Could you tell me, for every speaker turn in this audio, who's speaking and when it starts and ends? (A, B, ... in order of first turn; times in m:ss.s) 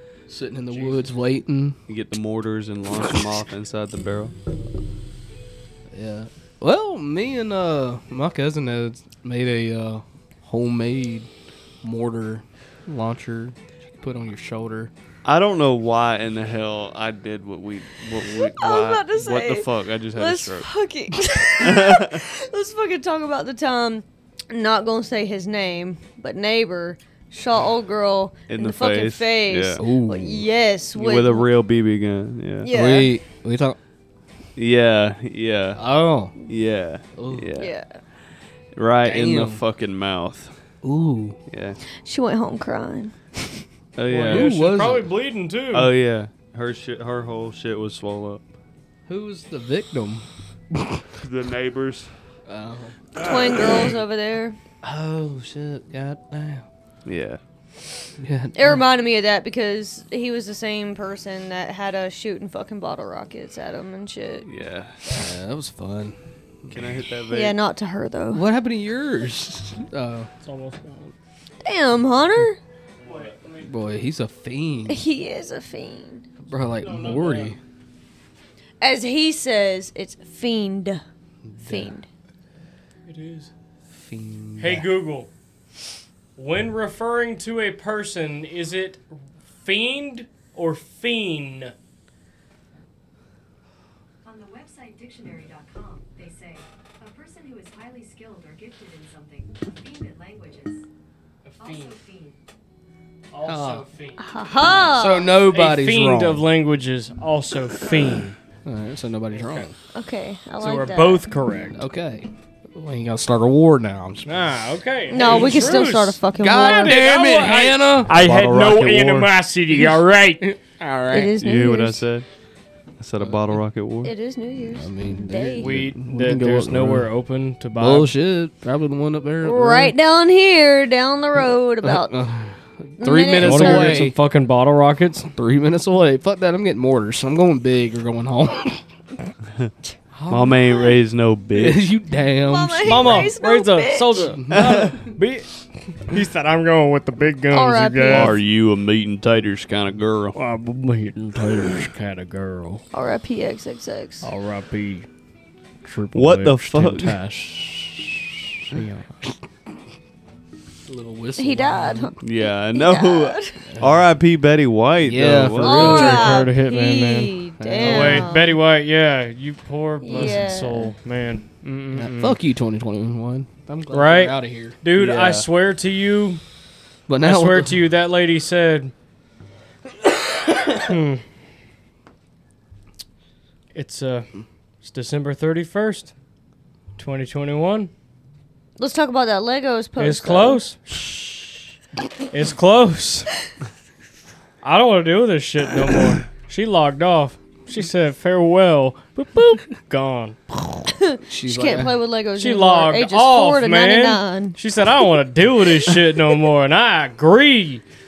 0:00.3-0:01.8 A
0:00.7-0:01.1 B
0:01.9-0:04.3 B
0:05.9-0:11.3 A
0:11.8-0:14.9 A
0:15.2-0:20.7 B
0:18.6-0:31.5 C
0:21.6-0:22.2 B
0:28.5-0:29.8 B
0:29.8-0:30.5 A
0:31.0-0:32.7 B
0:32.6-0:33.1 C
0:32.7-0:33.8 A
0:34.6-0:35.8 B
0:35.8-0:36.3 A
0:36.5-0:37.7 B
0:37.2-0:37.5 A
0:37.6-0:37.9 C
0:38.8-0:40.5 B
0:39.0-0:39.6 A
0:40.8-0:41.4 A
0:41.5-0:41.8 B
0:42.0-0:43.2 C
0:44.0-0:44.6 B
0:44.1-0:45.9 D
0:44.3-0:45.1 A
0:45.7-0:48.4 B
0:49.1-0:51.0 A
0:51.2-0:52.1 B
0:52.5-0:53.0 A
0:53.2-0:54.6 C
0:53.2-0:54.0 B
0:54.8-0:56.7 A
0:57.1-0:57.4 B
0:58.2-0:58.8 A
0:58.5-1:04.5 C
1:04.4-1:05.0 B
1:05.1-1:06.2 A
1:06.6-1:07.6 B
1:07.3-1:08.4 C
1:08.3-1:10.3 A
1:10.4-1:11.2 D
1:11.6-1:12.6 C
1:13.0-1:13.4 B
1:13.0-1:13.7 D
1:13.6-1:15.0 A
1:14.9-1:16.2 C
1:16.4-1:17.6 A
1:16.8-1:17.6 D
1:18.8-1:21.0 C
1:21.4-1:22.0 A
1:21.6-1:22.1 C
1:23.1-1:23.5 D
1:23.9-1:24.9 A
1:24.6-1:25.3 D
1:26.4-1:31.7 D
1:34.2-1:40.8 E
1:41.4-1:42.0 D
1:41.6-1:42.4 E
1:43.3-1:44.8 D
1:43.4-1:43.9 A
1:44.2-1:45.4 C
1:44.8-1:46.5 A
1:45.5-1:48.4 D
1:48.6-1:49.7 A
1:49.3-1:49.7 D
1:49.9-1:51.3 C
1:50.6-1:51.8 D
1:51.7-1:54.3 A
1:54.2-2:00.5 D
1:55.1-1:57.0 C
1:56.4-1:58.2 A
1:58.1-1:59.3 B
2:00.4-2:01.4 A
2:01.1-2:02.0 C
2:01.4-2:02.3 B
2:03.0-2:04.1 B
2:03.2-2:03.6 A
2:04.0-2:05.7 C
2:04.8-2:07.1 A
2:05.6-2:08.1 D
2:07.8-2:10.0 A
2:09.4-2:12.2 C
2:11.8-2:14.2 A
2:13.0-2:14.1 C
2:13.4-2:15.3 D
2:15.4-2:18.8 A
2:20.1-2:21.0 A
2:20.3-2:21.9 B
2:21.5-2:23.3 A
2:22.5-2:24.4 C
2:22.8-2:28.4 D
2:24.2-2:25.0 A
2:24.5-2:25.0 B
2:27.5-2:28.4 C
2:28.1-2:30.4 B
2:30.4-2:32.8 D
2:32.9-2:34.3 C
2:34.2-2:35.1 D
2:35.8-2:39.3 D
2:36.1-2:37.2 B
2:40.9-2:42.1 A
2:41.4-2:43.6 C
2:42.2-2:46.4 B
2:43.7-2:44.0 A
2:45.0-2:46.5 A
2:45.6-2:48.6 C
2:45.7-2:52.4 D
2:47.6-2:48.4 A
2:50.0-2:50.9 C
2:51.9-2:54.8 A
2:53.9-2:56.4 D
2:54.9-2:55.5 B
2:57.1-2:57.9 A
2:57.2-2:58.9 D
3:00.6-3:01.2 D
3:03.7-3:04.3 D
3:04.8-3:06.1 D
3:07.0-3:07.9 D
3:08.8-3:10.6 C
3:10.0-3:10.8 D
3:12.3-3:13.3 D
3:14.6-3:20.6 D
3:21.0-3:24.6 C
3:21.3-3:21.9 A
3:22.4-3:27.8 D